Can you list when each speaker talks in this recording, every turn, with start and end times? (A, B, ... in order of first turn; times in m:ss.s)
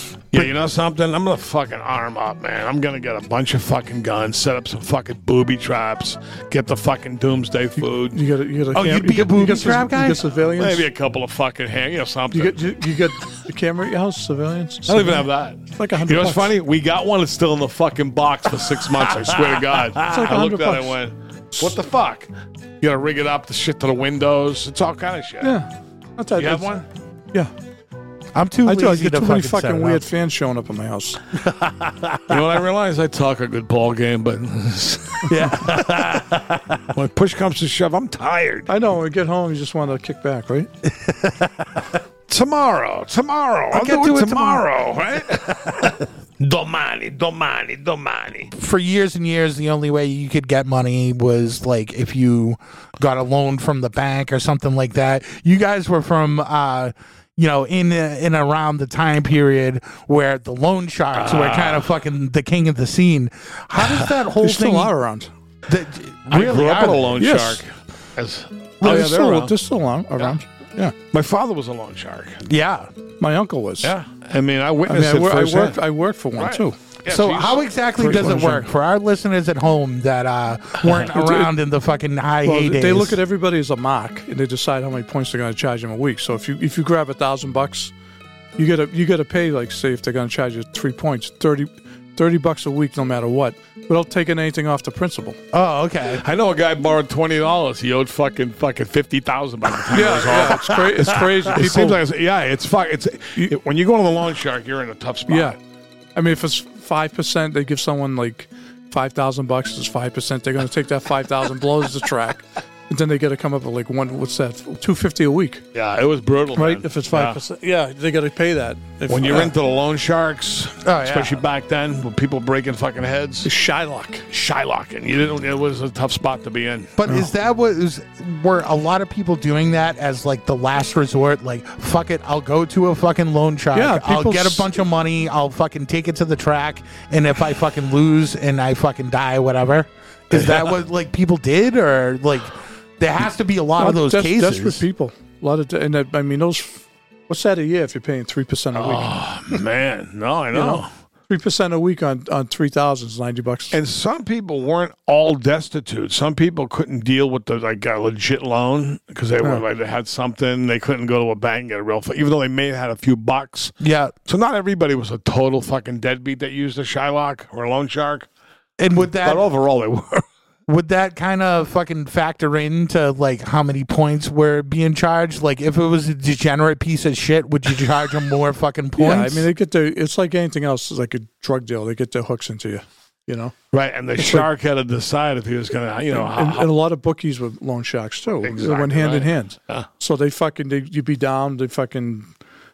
0:00.3-0:08.2 A
0:07.8-0:10.9 B
0:08.7-0:10.3 C
0:10.6-0:12.7 A
0:12.3-0:16.5 B
0:14.9-0:22.3 A
0:20.0-0:21.0 B
0:22.8-0:25.6 A
0:25.4-0:26.7 B
0:26.3-0:26.8 A
0:28.3-0:30.0 C
0:28.6-0:31.2 B
0:31.3-0:32.4 C
0:32.3-0:35.3 A
0:35.3-0:36.9 C
0:36.9-0:38.7 A
0:38.7-0:40.7 B
0:40.9-0:41.7 C
0:42.3-0:48.5 A
0:43.7-0:44.6 C
0:45.4-0:45.9 C
0:48.6-1:04.9 C
1:01.1-1:01.9 A
1:04.4-1:05.3 B
1:05.7-1:07.2 C
1:06.3-1:09.5 A
1:07.2-1:07.6 B
1:08.8-1:10.9 B
1:11.1-1:12.4 A
1:12.4-1:12.9 C
1:13.2-1:13.9 B
1:13.8-1:17.6 A
1:14.8-1:16.8 B
1:17.1-1:23.2 C
1:18.0-1:18.7 B
1:21.1-1:21.5 B
1:22.4-1:27.9 B
1:28.6-1:35.4 B
1:35.5-1:36.2 C
1:36.2-1:45.6 A
1:39.9-1:42.0 B
1:45.3-1:45.6 B
1:46.1-1:55.6 B
1:55.7-1:57.4 A
1:56.6-1:59.5 B
1:59.1-2:03.5 A
2:00.8-2:01.4 C
2:03.4-2:04.2 B
2:04.3-2:06.9 A
2:07.0-2:24.8 C
2:13.7-2:14.7 B
2:20.3-2:20.7 A
2:23.8-2:29.1 B
2:28.7-2:30.9 A
2:30.5-2:33.8 B
2:33.7-2:43.7 A
2:43.8-2:44.1 C
2:44.3-2:48.3 A
2:48.8-2:49.5 C
2:49.2-2:50.2 A
2:50.7-2:59.5 C
2:59.0-3:03.5 B
3:03.7-3:06.7 A
3:04.2-3:04.5 B
3:06.1-3:12.3 B
3:08.4-3:09.9 A